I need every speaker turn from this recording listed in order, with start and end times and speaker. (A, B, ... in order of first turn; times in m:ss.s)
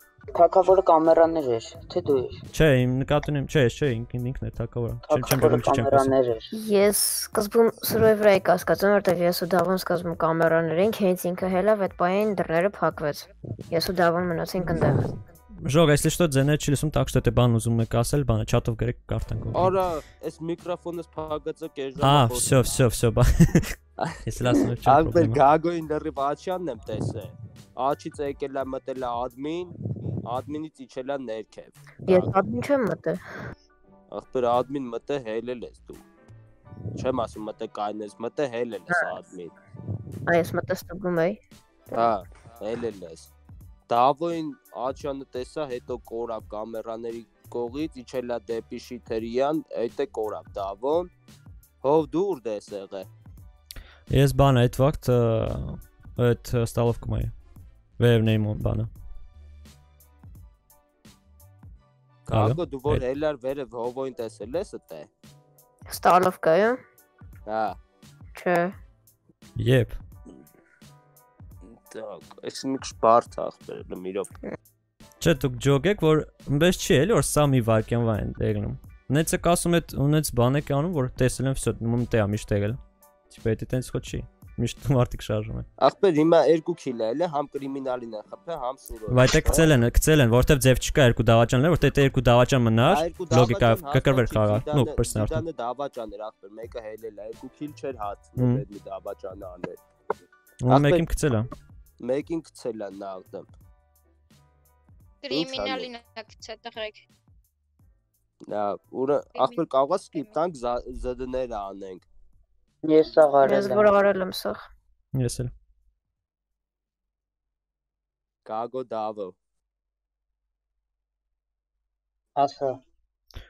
0:00.4-0:02.4 A
0:02.5-0:06.2 B
0:05.1-0:06.5 A
0:06.5-0:15.1 C
0:15.6-0:19.8 B
0:19.5-0:22.5 D
0:22.0-0:25.4 B
0:24.0-0:29.7 D
0:30.2-0:32.3 D
0:32.1-0:33.2 C
0:34.1-0:36.0 D
0:37.0-0:39.5 D
0:38.9-0:39.2 C
0:40.3-0:41.4 C
0:41.9-0:43.3 D
0:43.9-0:51.1 D
0:51.8-0:53.1 D
0:54.1-0:57.3 B
0:58.0-0:58.9 B
1:02.3-1:05.1 D
1:02.3-1:03.0 B
1:05.9-1:06.8 C
1:07.5-1:07.8 D
1:08.4-1:08.7 C
1:09.6-1:10.0 B
1:11.8-1:14.3 D
1:15.2-1:22.8 B
1:23.3-1:25.7 B
1:25.8-1:29.7 D
1:29.1-1:35.4 B
1:32.9-1:39.8 D
1:38.4-1:38.6 B
1:40.6-1:41.5 B
1:40.7-1:41.0 D
1:42.0-1:43.5 D
1:45.2-1:47.0 E
1:45.3-1:45.9 D
1:48.5-1:52.0 D
1:49.4-1:50.4 E
1:52.8-1:54.0 A
1:53.4-1:54.7 C
1:55.1-1:55.5 B
1:58.4-1:59.4 D
2:02.4-2:02.8 A